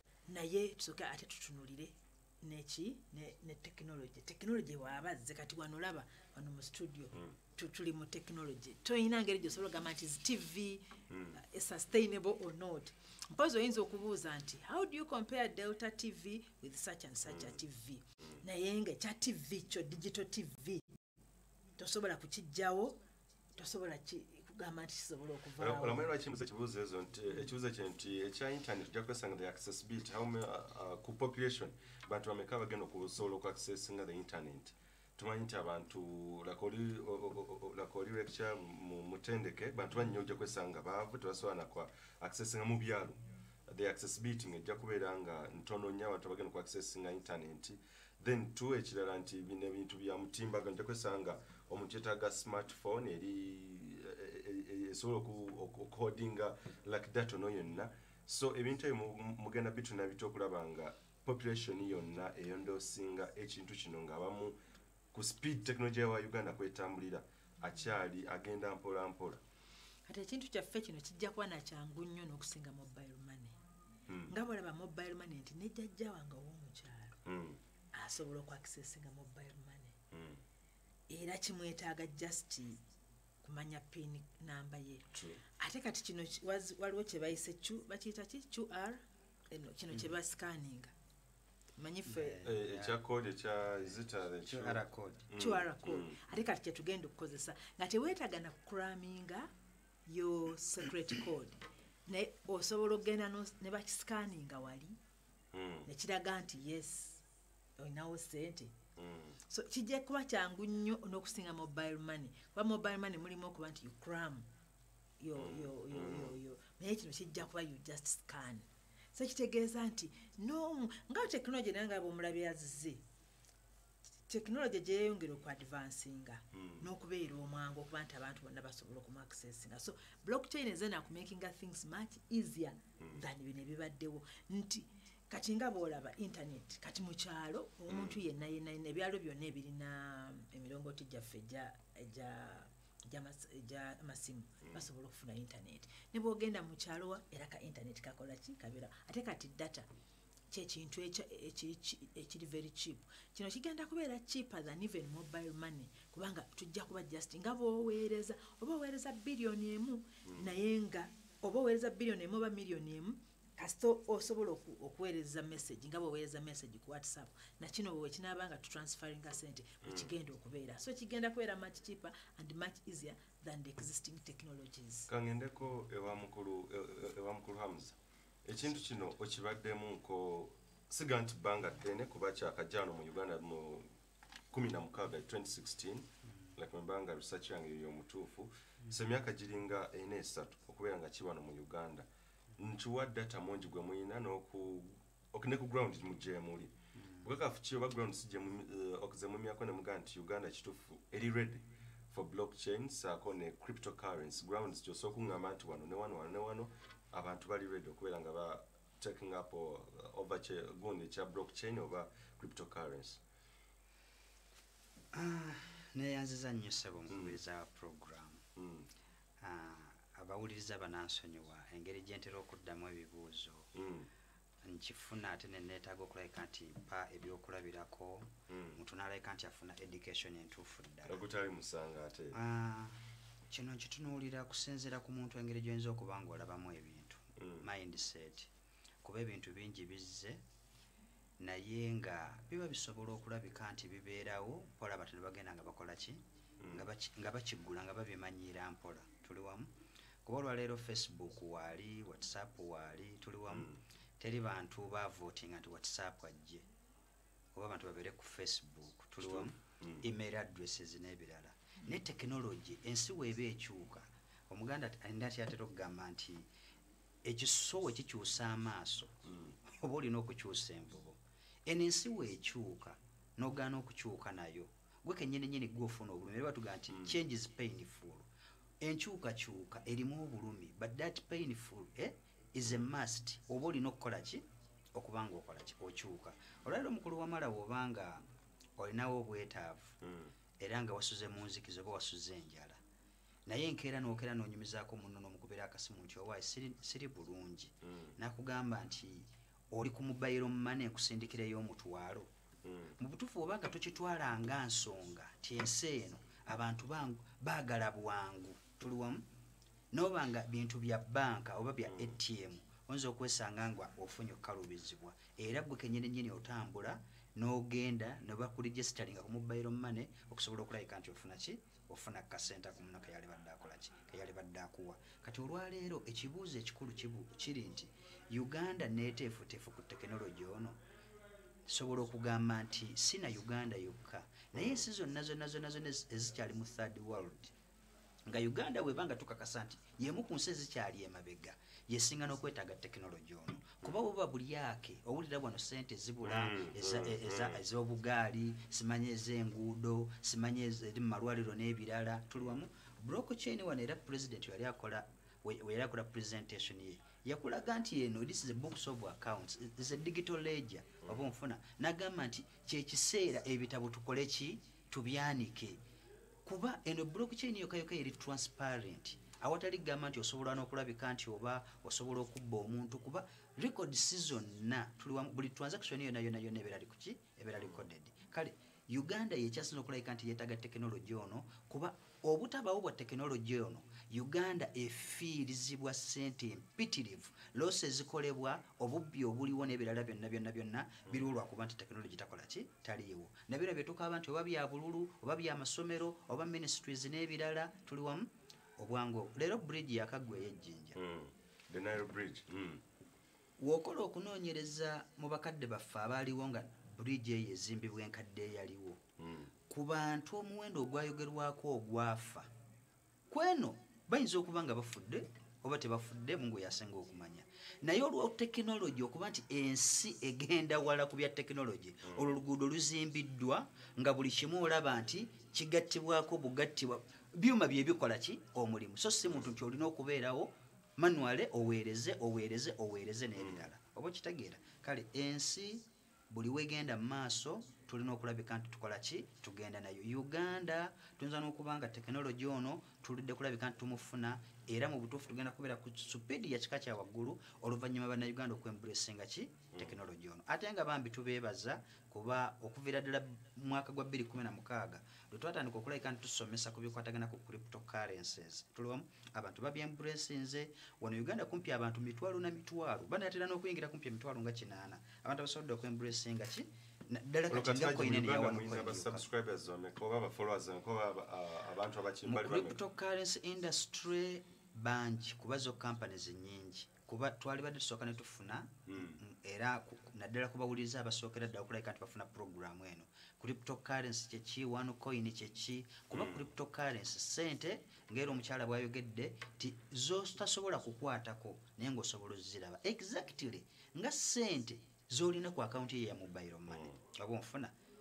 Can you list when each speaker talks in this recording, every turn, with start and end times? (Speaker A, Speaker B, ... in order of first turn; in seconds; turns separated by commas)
Speaker A: 0.3-20.9, Speaker B: 11.1-11.4, Speaker B: 17.3-17.6, Speaker A: 21.8-23.0, Speaker A: 23.6-26.1, Speaker B: 25.6-64.6, Speaker B: 65.1-69.4, Speaker A: 70.0-73.5, Speaker B: 74.1-74.3, Speaker A: 74.3-77.2, Speaker B: 77.2-77.6, Speaker A: 77.9-80.0, Speaker B: 80.1-80.4, Speaker A: 81.1-82.8, Speaker A: 83.4-90.9, Speaker B: 85.1-85.4, Speaker A: 91.8-92.4, Speaker C: 92.0-93.0, Speaker B: 92.4-96.2, Speaker C: 94.5-95.3, Speaker A: 95.4-99.5, Speaker A: 100.1-105.0, Speaker B: 105.5-105.9, Speaker A: 105.8-107.2, Speaker A: 107.8-108.8, Speaker B: 109.0-109.4, Speaker A: 109.5-114.5, Speaker A: 115.2-123.0, Speaker B: 115.4-116.3, Speaker A: 124.3-149.9, Speaker B: 126.5-126.9, Speaker B: 133.0-133.2, Speaker B: 137.9-138.2, Speaker A: 150.5-175.1, Speaker B: 160.2-160.5, Speaker B: 169.8-170.1, Speaker B: 175.1-183.9, Speaker B: 184.5-192.1, Speaker B: 192.6-213.2, Speaker C: 197.0-197.3, Speaker C: 215.1-218.4, Speaker B: 217.1-217.4, Speaker B: 218.6-218.9, Speaker C: 219.4-223.7, Speaker B: 223.7-224.1, Speaker C: 224.6-231.3, Speaker B: 228.5-228.8, Speaker B: 231.1-232.4, Speaker C: 232.3-238.5, Speaker B: 237.4-237.7, Speaker C: 239.0-240.4, Speaker C: 241.4-249.7, Speaker B: 246.6-246.8, Speaker C: 250.2-256.6, Speaker B: 253.5-253.8, Speaker C: 257.5-266.5, Speaker B: 259.2-260.1, Speaker C: 267.2-278.3, Speaker B: 269.2-269.6, Speaker B: 276.9-277.2, Speaker C: 278.8-284.4, Speaker C: 284.9-288.2, Speaker C: 288.8-289.9, Speaker B: 290.0-290.4, Speaker C: 290.6-292.8, Speaker C: 293.5-302.3, Speaker B: 297.8-298.1, Speaker B: 302.6-303.0, Speaker C: 303.0-309.2, Speaker C: 309.9-330.8, Speaker B: 311.9-312.2, Speaker C: 331.7-337.5, Speaker B: 334.5-334.9, Speaker C: 338.3-365.8, Speaker B: 346.2-347.6, Speaker B: 352.4-352.6, Speaker B: 361.0-361.3, Speaker C: 366.4-401.0, Speaker B: 377.6-377.8, Speaker B: 400.9-402.8, Speaker C: 403.6-409.0, Speaker B: 409.2-409.5, Speaker C: 409.7-412.5, Speaker C: 413.3-469.3, Speaker B: 422.0-422.4, Speaker B: 433.4-433.7, Speaker B: 449.7-450.0, Speaker B: 467.5-472.8, Speaker C: 472.2-497.7, Speaker B: 478.9-479.2, Speaker B: 486.1-486.5, Speaker B: 496.7-497.0